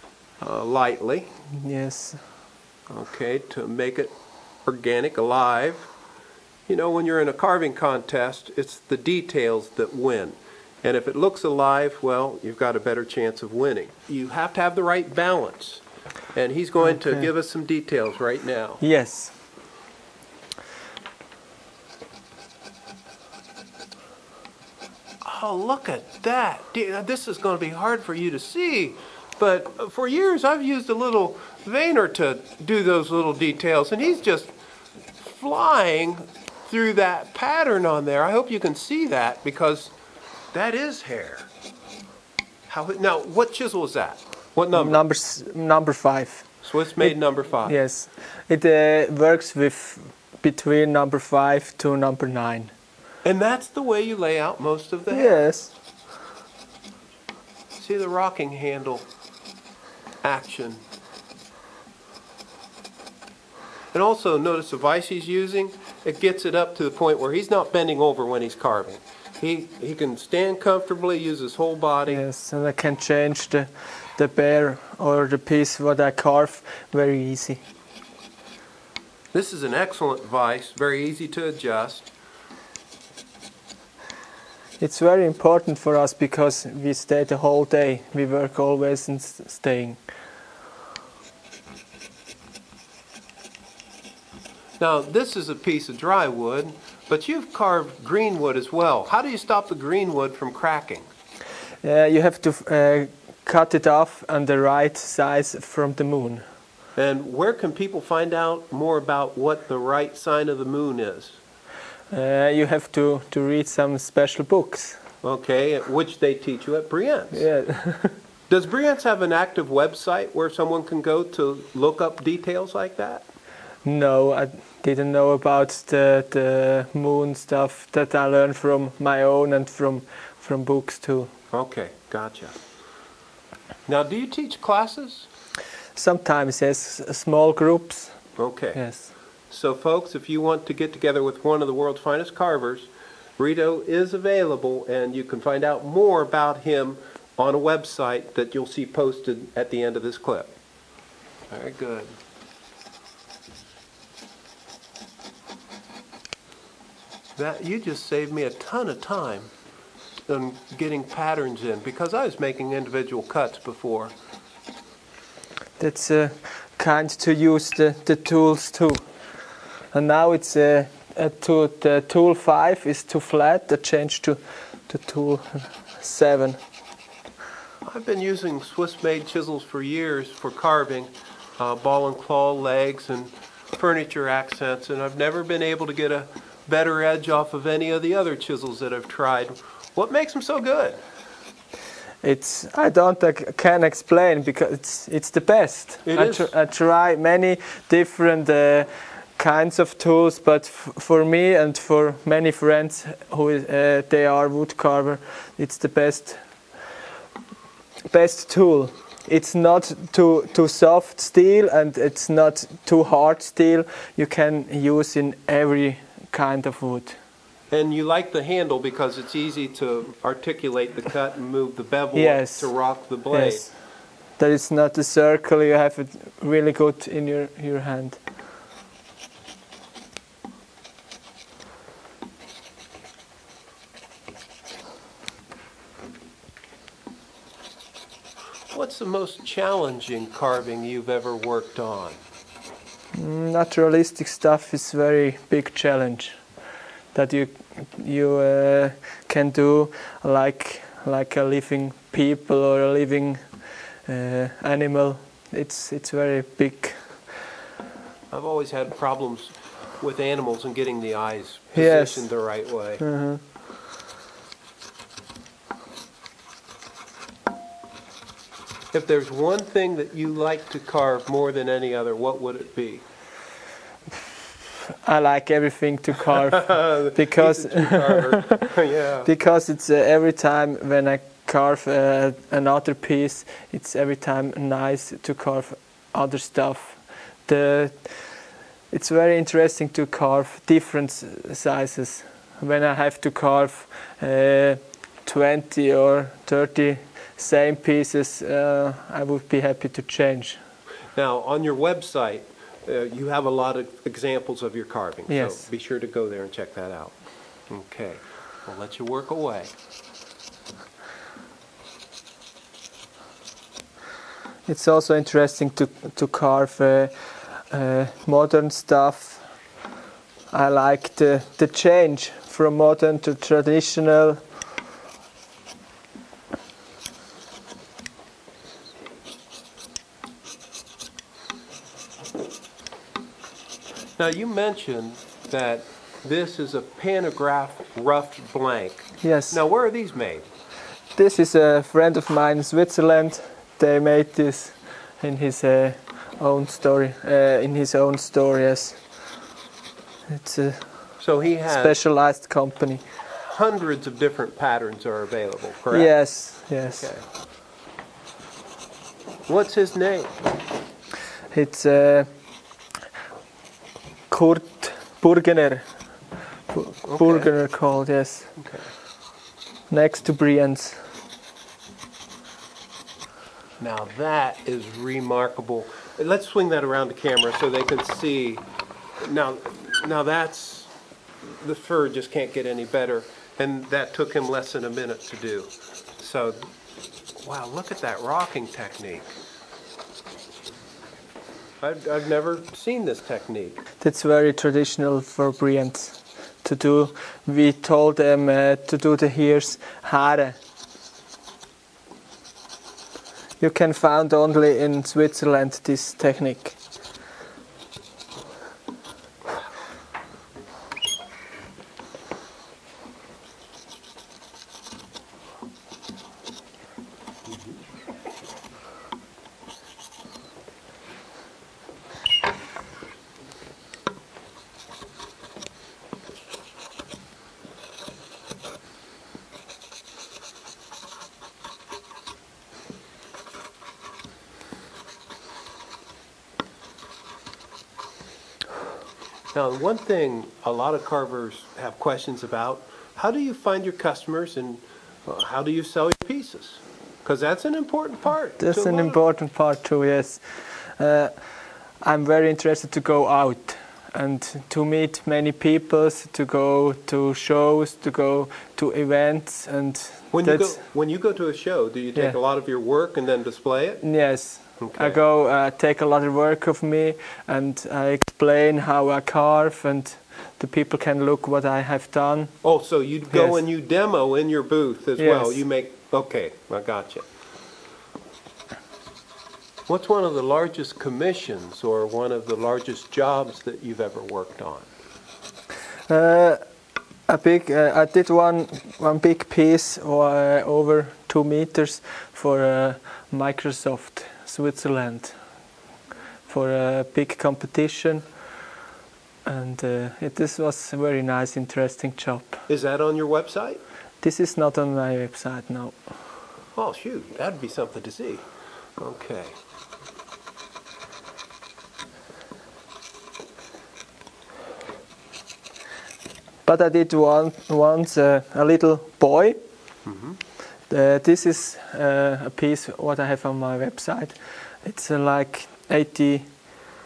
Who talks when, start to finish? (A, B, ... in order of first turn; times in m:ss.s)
0:00.4-0:01.3 A
0:01.6-0:02.2 B
0:02.9-0:04.1 A
0:04.7-0:05.9 A
0:06.7-0:15.8 A
0:16.3-0:18.8 A
0:16.9-0:17.3 B
0:18.8-0:19.4 B
0:25.2-0:34.5 A
0:35.2-0:39.9 A
0:40.5-0:41.5 A
0:42.7-0:45.0 A
0:44.7-0:52.7 B
0:46.6-0:47.8 A
0:53.2-0:55.4 A
0:55.1-0:55.7 B
0:57.8-0:59.1 A
1:00.2-1:00.8 A
1:03.9-1:12.2 A
1:12.1-1:17.6 B
1:19.3-1:22.1 A
1:24.8-1:30.0 B
1:34.8-1:41.1 A
1:41.8-1:46.5 B
1:47.0-1:51.4 A
1:52.1-1:55.0 B
1:55.2-1:57.4 A
1:57.3-1:58.2 B
1:58.5-2:03.2 A
2:03.8-2:11.3 B
2:11.5-2:12.6 A
2:13.9-2:15.3 A
2:16.0-2:18.2 B
2:18.4-2:18.8 A
2:18.8-2:19.1 B
2:19.5-2:30.5 A
2:31.5-2:32.1 A
2:37.4-2:39.5 A
2:40.3-2:44.1 A
2:45.8-2:49.1 B
2:49.9-2:56.6 B
2:57.8-3:11.0 A
3:12.2-3:26.4 B
3:16.1-3:16.5 A
3:28.1-3:37.2 B
3:37.7-3:43.7 A
3:42.1-3:43.8 B
3:44.4-3:48.2 B
3:58.7-4:02.2 A
4:03.2-4:06.5 B
4:07.1-4:17.4 B
4:18.3-4:23.0 A
4:21.7-4:22.3 B
4:23.0-4:23.4 B
4:28.9-4:33.0 A
4:35.0-4:38.7 B
4:36.7-4:39.3 A
4:39.2-5:00.6 B
5:01.2-5:07.2 A
5:05.3-5:05.7 B
5:07.7-5:09.7 A
5:14.7-5:19.5 B
5:20.5-5:24.4 B
5:34.2-5:40.4 A
5:39.2-5:39.6 B
5:41.2-5:49.0 B
5:50.3-5:53.0 B
5:51.2-5:52.0 A
5:53.3-5:57.2 A
5:55.9-5:57.1 B
5:59.5-6:00.3 A
6:01.5-6:02.3 B
6:04.3-6:05.9 B
6:06.7-6:08.5 B
6:07.1-6:07.5 A
6:08.6-6:08.9 A
6:09.9-6:11.0 B
6:13.8-6:18.6 A
6:19.2-6:26.6 A
6:27.4-6:29.3 A
6:31.8-6:33.8 A
6:34.0-6:40.6 B
6:43.6-6:46.8 B
7:19.5-7:29.2 A
7:28.6-7:31.3 B
7:32.0-7:40.8 B
7:40.3-7:44.1 A
7:44.0-7:52.6 B
7:44.8-7:45.2 A
7:52.6-7:57.3 A
7:53.3-7:53.6 B
7:55.2-7:55.6 B
7:59.9-8:04.9 A
8:06.1-8:06.6 B
8:07.3-8:15.4 B
8:16.5-8:18.3 B
8:19.4-8:22.6 B
8:22.7-8:23.8 A
8:24.2-8:26.1 B
8:26.8-8:28.5 A
8:29.0-8:29.6 A
8:36.6-8:39.6 B
8:40.1-8:40.4 A
8:40.9-8:46.5 B